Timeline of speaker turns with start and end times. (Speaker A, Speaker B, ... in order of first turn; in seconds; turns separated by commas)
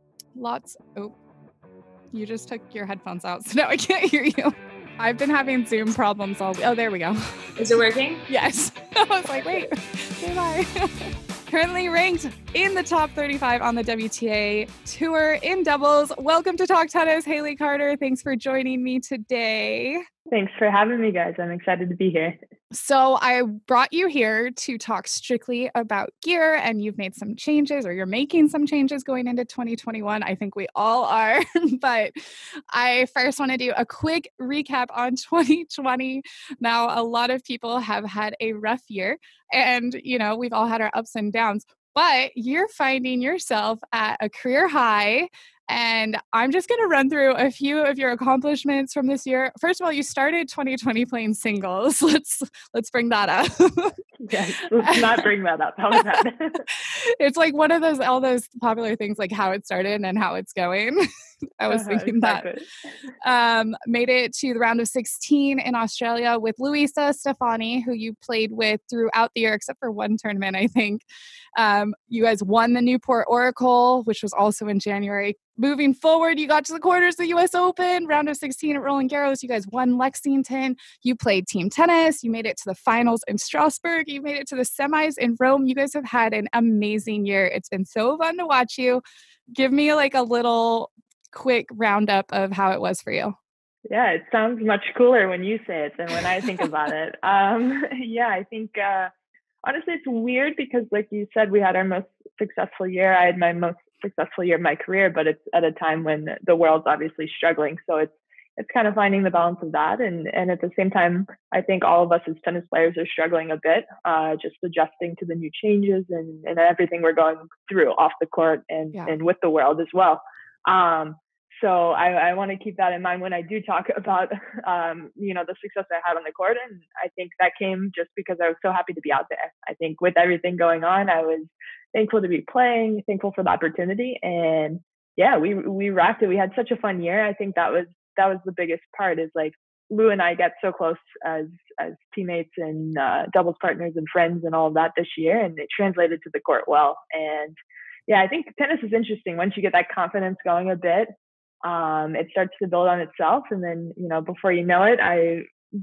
Speaker A: 0.3-1.1, Speaker A: 2.1-7.5, Speaker B: 7.6-8.2, Speaker A: 8.3-20.0, Speaker B: 9.4-9.7, Speaker B: 20.3-22.4, Speaker A: 22.7-54.0, Speaker B: 54.2-56.6, Speaker A: 54.8-55.1, Speaker A: 56.7-61.0, Speaker A: 61.6-62.5, Speaker B: 61.7-62.6, Speaker A: 63.2-71.0, Speaker A: 71.5-89.0, Speaker A: 89.5-93.4, Speaker B: 93.9-99.1, Speaker B: 99.6-147.6, Speaker B: 148.1-151.1, Speaker B: 151.6-155.5